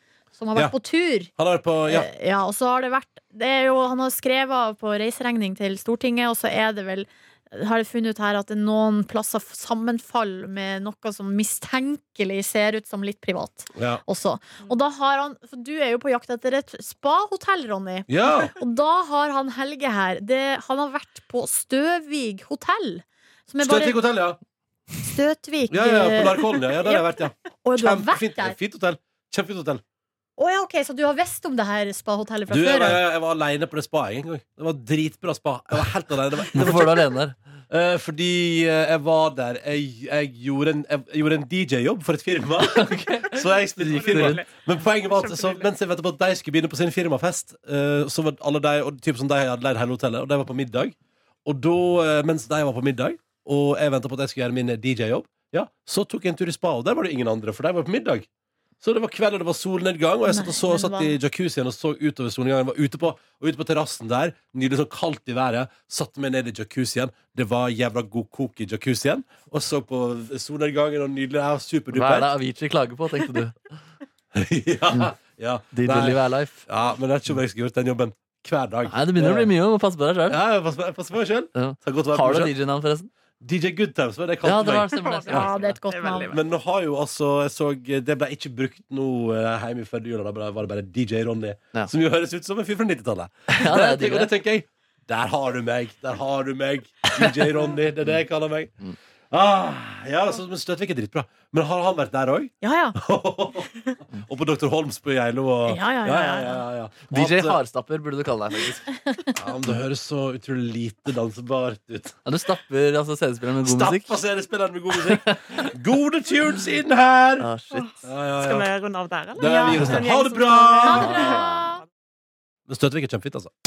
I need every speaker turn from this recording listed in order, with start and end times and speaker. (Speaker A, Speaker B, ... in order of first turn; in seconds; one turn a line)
Speaker A: 0.3-1.3
Speaker B: 1.4-2.1
Speaker A: 1.9-24.0
Speaker B: 13.7-14.0
Speaker B: 18.1-18.5
Speaker B: 23.6-24.4
Speaker A: 25.0-28.6
Speaker B: 25.7-29.8
Speaker A: 30.4-33.0
Speaker B: 32.5-37.1
Speaker C: 36.5-37.4
Speaker B: 37.7-58.3
Speaker C: 42.6-43.4
Speaker D: 43.8-45.7
Speaker C: 43.9-44.4
Speaker B: 58.8-72.3
Speaker A: 60.3-61.2
Speaker C: 71.9-73.7
Speaker B: 74.3-79.5
Speaker C: 75.7-76.6
Speaker C: 78.8-80.4
Speaker B: 80.3-82.5
Speaker C: 81.5-83.1
Speaker B: 83.4-85.0
Speaker C: 84.4-85.8
Speaker D: 84.9-86.4
Speaker A: 85.2-86.4
Speaker B: 86.3-98.7
Speaker C: 93.5-94.3
Speaker B: 99.3-107.6
Speaker A: 102.6-103.0
Speaker A: 105.7-106.6
Speaker C: 107.1-108.9
Speaker B: 109.4-112.2
Speaker C: 112.2-114.2
Speaker B: 113.6-117.5
Speaker C: 115.0-115.7
Speaker C: 117.4-117.9
Speaker D: 117.7-121.8
Speaker B: 118.0-118.7
Speaker B: 119.3-121.2
Speaker A: 119.4-119.8
Speaker A: 120.8-121.8
Speaker C: 121.0-121.6
Speaker B: 122.7-123.5